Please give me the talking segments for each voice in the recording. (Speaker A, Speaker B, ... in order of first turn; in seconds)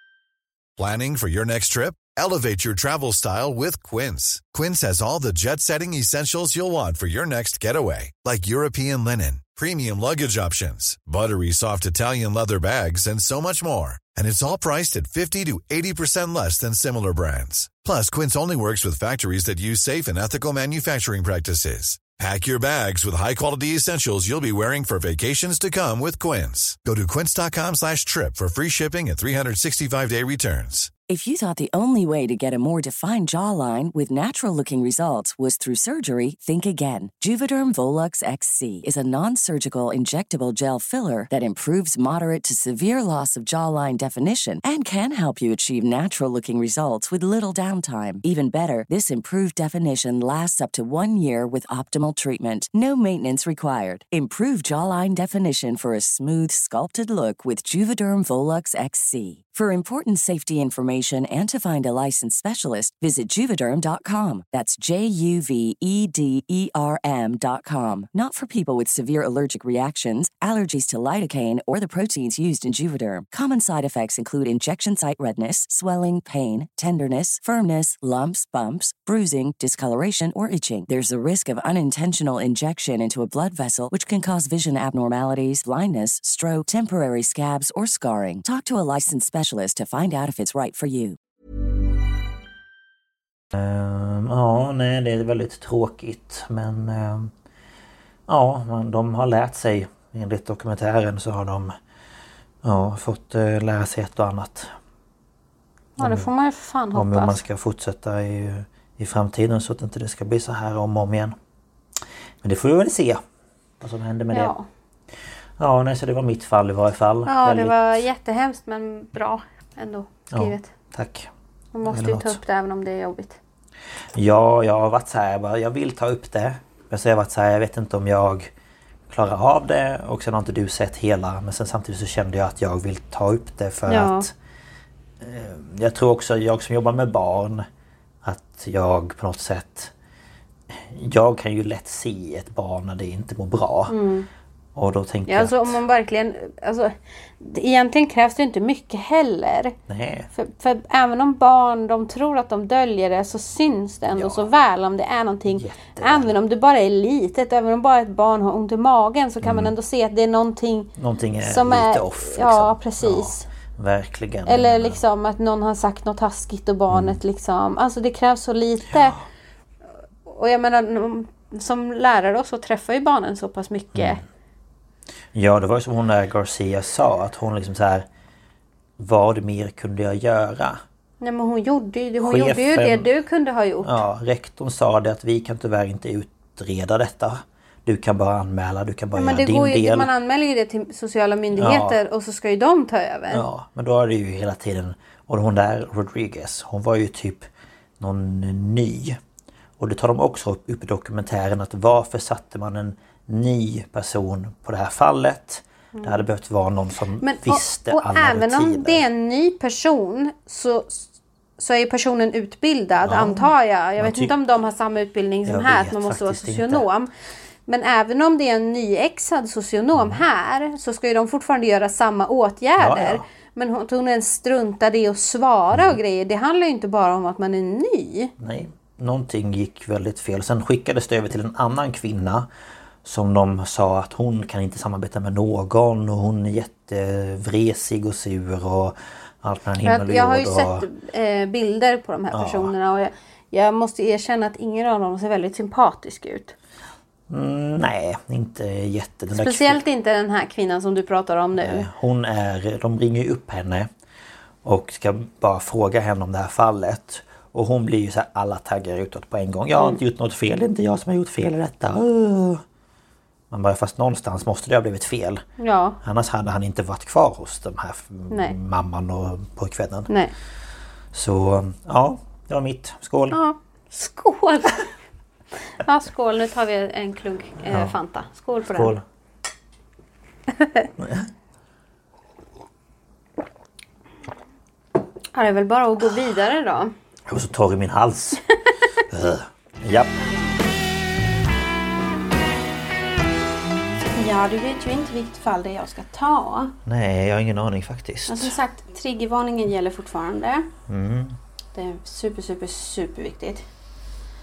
Speaker A: 0.8-30.9
Speaker B: 31.1-91.2
Speaker C: 93.5-97.3, 98.3-101.7, 102.6-104.7, 106.0-106.3, 106.9-111.4, 112.4-113.2, 113.8-114.5, 115.6-118.0, 120.3-121.3, 121.8-122.4, 124.1-128.5, 129.1-134.3, 135.2-137.7, 138.2-139.9, 140.7-144.0, 144.8-145.8, 149.9-150.3, 154.1-154.5, 155.5-156.3, 159.4-159.7, 161.0-165.0, 166.9-167.2, 168.9-169.2, 173.9-174.2, 175.3-178.1, 179.0-180.8, 182.2-183.1, 183.8-190.1, 191.5-192.0, 193.3-197.5, 198.0-199.2, 199.8-209.0, 213.1-214.3, 215.4-216.8, 219.9-220.2, 222.8-223.2, 228.4-232.5, 233.0-240.9, 242.3-242.7, 247.3-249.8, 251.6-253.9, 254.6-262.6, 263.5-265.4, 266.0-270.1, 271.1-273.4, 277.7-277.9, 278.7-279.0, 281.0-281.3, 287.3-288.4, 289.1-290.2, 296.9-298.6, 300.9-301.4
Speaker D: 106.0-107.4, 114.3-114.7, 117.3-120.7, 121.7-123.4, 133.9-134.3, 143.9-144.3, 145.3-149.8, 150.3-160.9, 161.4-163.5, 164.5-169.2, 170.3-174.2, 181.2-184.0, 189.2-193.4, 207.2-217.1, 217.7-228.3, 239.8-246.6, 249.3-251.9, 265.6-266.0, 268.3-268.6, 273.3-274.9, 275.8-279.0, 285.3-286.9
Speaker E: 294.1-296.8, 298.3-300.7, 301.7-303.6